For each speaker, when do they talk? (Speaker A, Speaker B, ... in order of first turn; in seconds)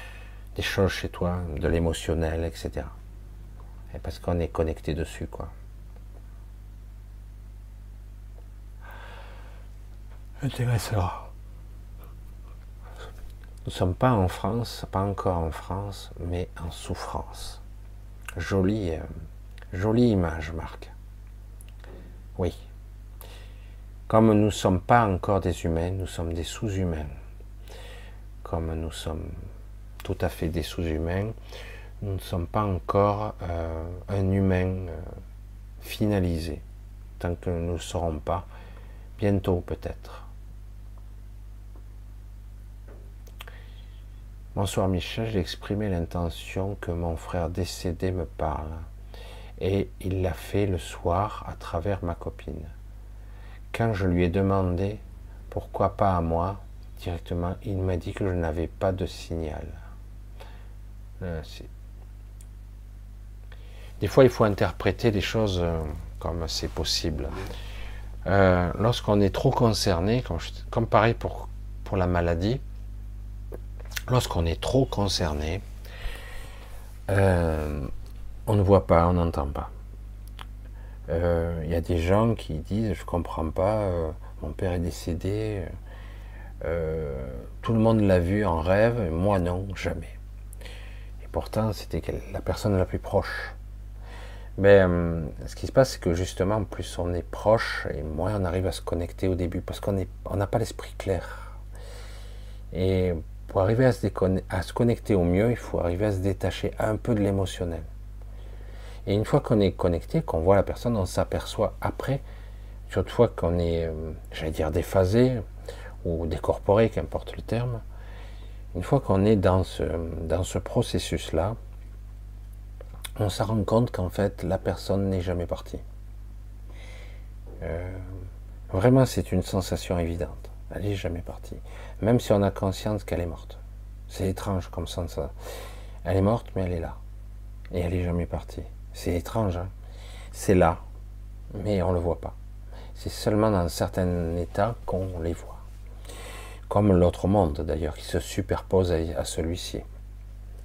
Speaker A: 0.6-2.9, 3.9-5.5, 10.4-11.3, 13.7-17.6, 18.4-19.1, 19.7-20.9, 24.1-27.1, 28.4-29.4, 30.0-31.4, 32.0-35.0, 35.8-36.6, 37.2-38.5, 39.2-40.3, 44.5-48.9, 49.6-52.7, 53.7-59.8, 61.2-61.7, 64.0-67.3, 68.3-72.6, 74.1-75.6, 77.1-77.9, 78.5-79.7, 81.1-85.7, 86.6-90.2, 91.2-93.6, 94.6-101.6, 102.7-107.9, 109.1-112.2, 112.9-115.4, 116.0-117.8, 118.7-121.6, 123.2-125.8, 127.6-135.3, 136.0-137.0, 137.7-139.7, 140.3-140.8, 141.5-142.4, 142.9-145.6, 146.7-149.8